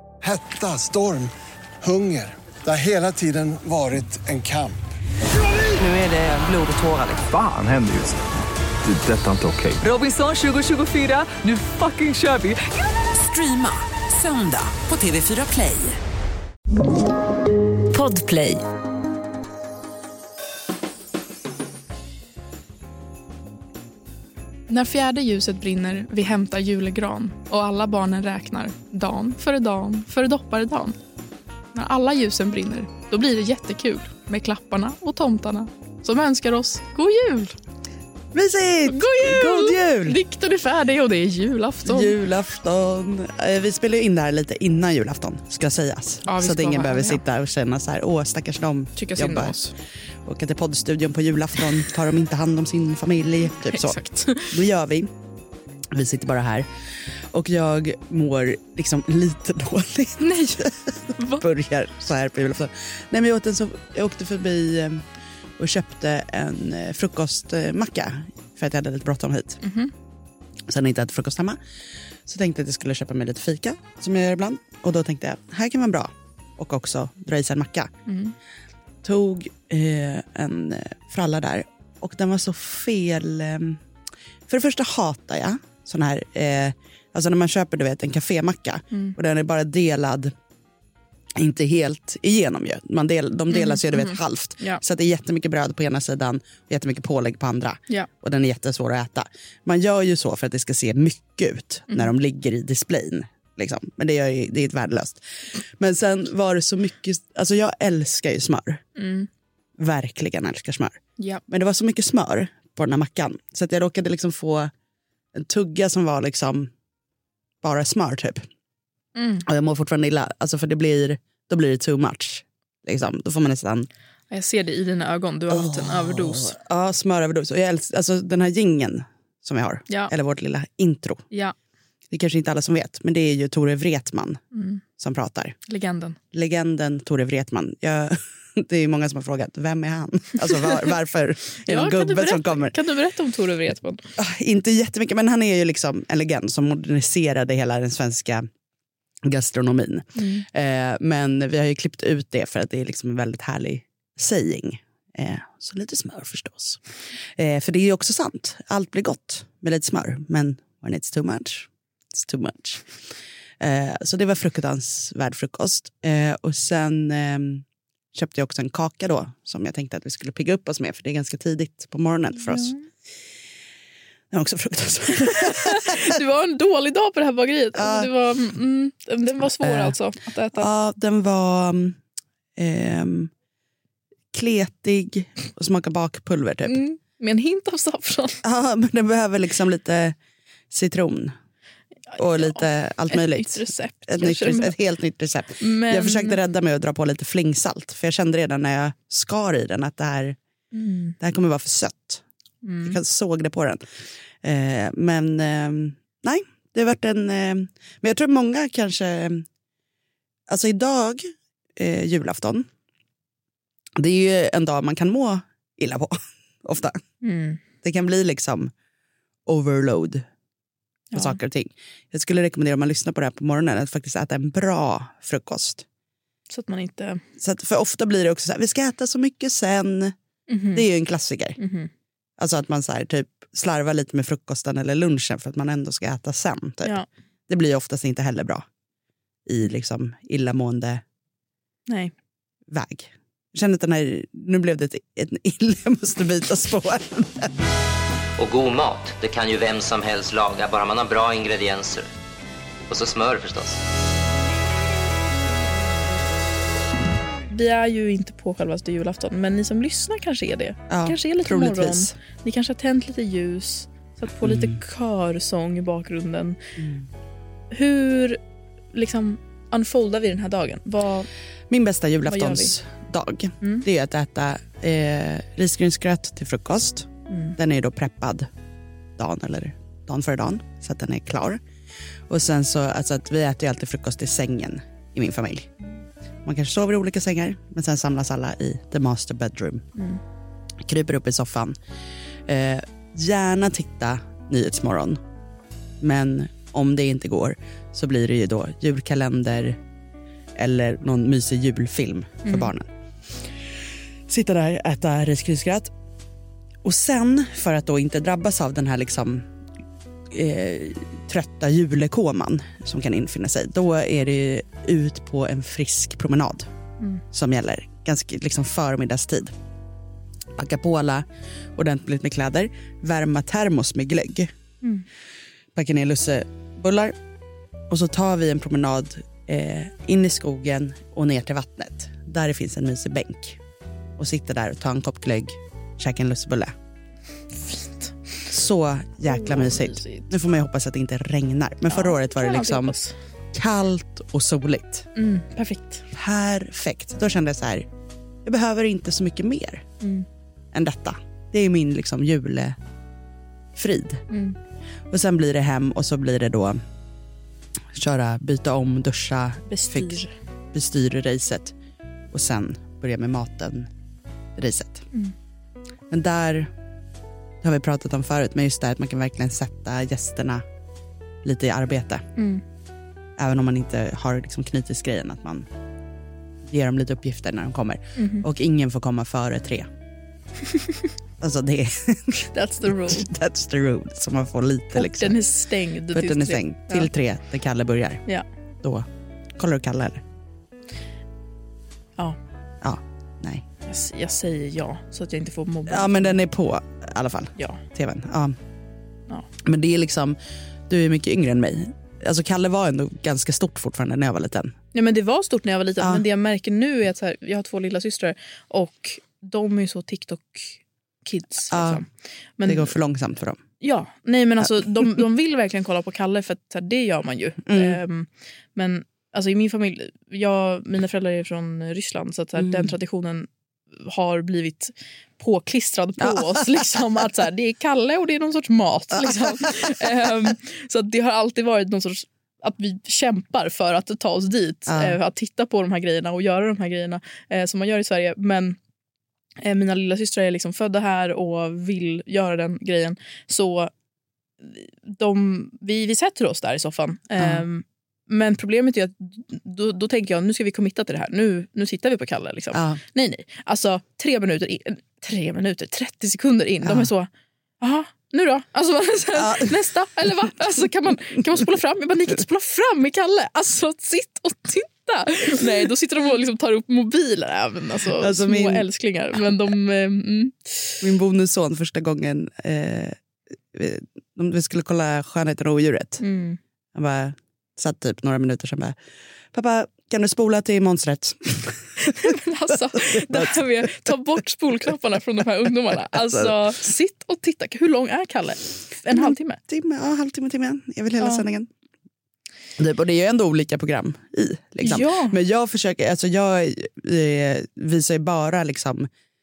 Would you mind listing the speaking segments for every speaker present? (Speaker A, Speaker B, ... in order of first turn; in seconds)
Speaker A: 0.2-4.8
Speaker B: 5.8-7.3, 9.8-16.0, 17.9-18.6
Speaker C: 7.3-8.2, 8.8-9.8
Speaker D: 24.7-30.9, 31.7-37.5, 38.9-42.1, 46.2-47.2, 49.0-49.7, 53.6-54.6, 60.2-61.4, 69.6-69.9, 78.0-78.3, 88.9-89.2, 93.5-94.8, 109.0-109.3, 119.2-119.4, 124.3-126.5, 131.3-131.6, 134.5-134.8, 135.7-136.2, 141.7-144.0, 150.2-150.4, 172.5-172.8, 175.3-180.7, 186.7-188.4, 192.1-194.8, 195.6-196.4, 200.7-201.2, 202.6-203.0, 217.2-217.6, 221.1-221.4, 226.5-227.2, 230.5-230.8, 231.6-231.9, 257.5-266.6, 267.7-268.4, 268.9-271.3, 272.2-272.7, 277.3-277.6, 302.4-302.7, 337.6-338.1, 339.2-340.3, 341.9-343.1, 345.1-346.0, 350.0-350.2, 354.3-354.6, 359.7-360.3, 372.4-372.6, 378.1-378.4, 382.5-383.3, 384.9-387.1, 393.8-396.4, 397.6-397.8, 404.9-412.9, 413.8-423.5, 424.0-438.8, 439.6-443.9, 444.6-471.0, 476.2-476.6, 482.0-489.6, 491.2-491.4, 494.8-495.4
Speaker E: 38.3-40.2, 41.8-49.5, 50.2-55.1, 55.9-65.0, 65.6-69.6, 70.7-71.6, 72.2-77.9, 79.0-83.8, 84.5-90.3, 91.4-108.8, 109.8-114.7, 115.3-116.7, 117.6-118.4, 119.5-123.9, 125.5-131.2, 132.1-134.4, 135.0-135.6, 136.3-142.8, 144.2-148.4, 149.2-156.8, 157.3-162.9, 163.6-172.7, 174.3-176.2, 177.7-178.1, 179.4-180.0, 180.5-182.0, 182.6-183.3, 184.3-186.8, 188.4-190.2, 190.7-191.3, 192.2-200.4, 201.2-202.2, 202.8-203.8, 204.4-209.4, 210.5-211.2, 211.8-212.7, 214.0-217.0, 217.8-218.7, 219.4-220.2, 221.1-225.8, 227.4-230.1, 230.7-231.6, 232.4-238.6, 239.4-241.0, 242.7-247.5, 260.9-262.1, 264.4-264.8, 266.8-267.1, 271.7-278.5, 279.2-281.6, 282.3-285.7, 286.4-289.8, 290.8-291.7, 292.5-295.2, 296.0-299.8, 300.6-302.9, 304.3-305.9, 306.8-309.4, 310.3-316.7, 317.3-319.5, 320.6-321.2, 321.8-324.5, 325.8-327.1, 327.9-333.6, 334.2-336.7, 338.5-342.9, 343.5-345.1, 346.1-347.9, 348.4-349.8, 350.7-352.8, 353.8-354.2, 355.1-356.8, 357.9-360.2, 360.7-361.7, 362.3-363.9, 364.6-365.1, 366.1-366.7, 367.6-370.6, 371.4-372.2, 373.4-375.6, 376.7-379.9, 381.4-385.4, 386.1-388.2, 389.6-390.2, 392.8-393.6, 395.9-398.5, 399.6-404.7, 406.0-406.2, 411.7-412.0, 412.6-413.6, 417.7-418.0, 422.6-422.9, 426.2-426.4, 434.9-435.2, 447.4-447.6, 452.7-453.0, 456.8-457.1, 459.3-459.9, 468.1-468.9, 471.0-473.2, 473.7-476.2, 476.9-478.9, 479.5-482.3, 483.0-484.1, 486.1-486.6, 489.1-491.7, 492.8-499.1
Speaker F: 248.4-252.1, 252.9-253.8